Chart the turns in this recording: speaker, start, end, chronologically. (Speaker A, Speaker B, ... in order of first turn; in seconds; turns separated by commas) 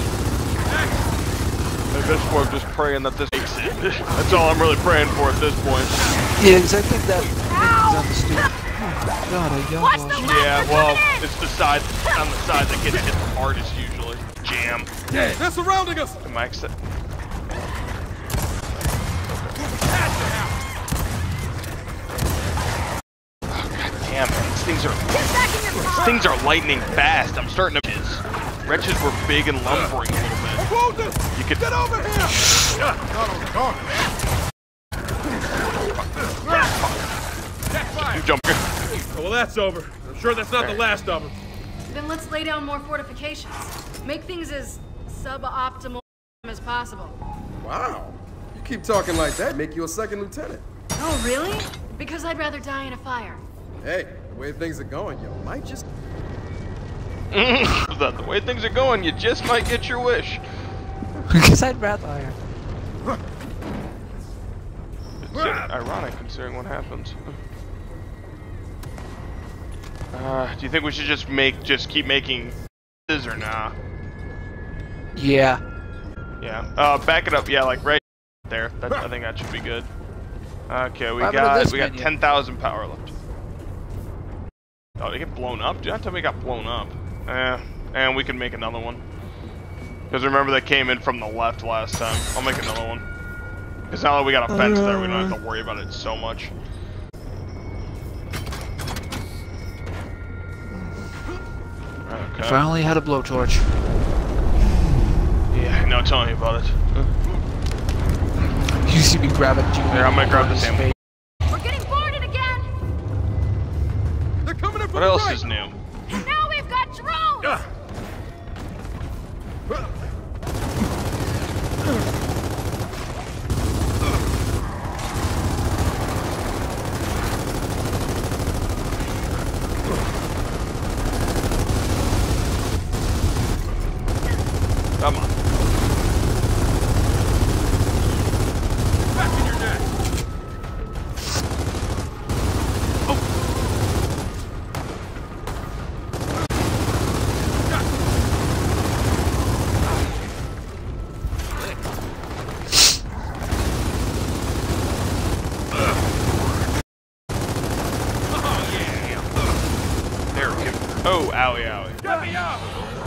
Speaker A: 1.9-6.0, Speaker B: 6.4-10.4, Speaker C: 7.4-8.5, Speaker C: 9.8-11.3, Speaker A: 10.2-15.2, Speaker D: 15.1-16.2, Speaker A: 16.2-16.7, Speaker A: 19.3-19.6, Speaker E: 20.0-20.5, Speaker A: 23.5-25.2, Speaker C: 25.1-26.3, Speaker A: 25.9-30.6, Speaker D: 30.6-32.4, Speaker A: 31.3-31.7, Speaker D: 33.1-34.0, Speaker A: 36.0-37.1, Speaker E: 37.7-38.2, Speaker A: 37.9-38.7, Speaker E: 39.0-41.4, Speaker A: 40.6-40.8, Speaker F: 41.9-47.2, Speaker D: 47.6-50.6, Speaker F: 51.0-53.4, Speaker D: 53.8-55.9, Speaker A: 57.3-60.4, Speaker B: 61.3-62.4, Speaker A: 65.2-67.4, Speaker A: 70.1-72.6, Speaker A: 73.1-73.7, Speaker B: 75.2-75.6, Speaker A: 76.4-79.9, Speaker A: 80.7-83.1, Speaker B: 81.2-82.1, Speaker A: 85.0-89.0, Speaker A: 90.1-93.0, Speaker A: 93.9-96.5, Speaker A: 102.1-102.6, Speaker B: 102.4-103.7, Speaker A: 105.5-107.1, Speaker B: 108.8-110.9, Speaker A: 109.9-110.9, Speaker C: 111.5-112.7, Speaker D: 114.4-115.4, Speaker A: 114.9-115.8, Speaker C: 116.1-117.6, Speaker A: 135.0-135.3, Speaker E: 139.5-139.8, Speaker E: 158.4-159.0, Speaker A: 158.6-159.2, Speaker A: 160.3-162.3, Speaker E: 162.0-162.6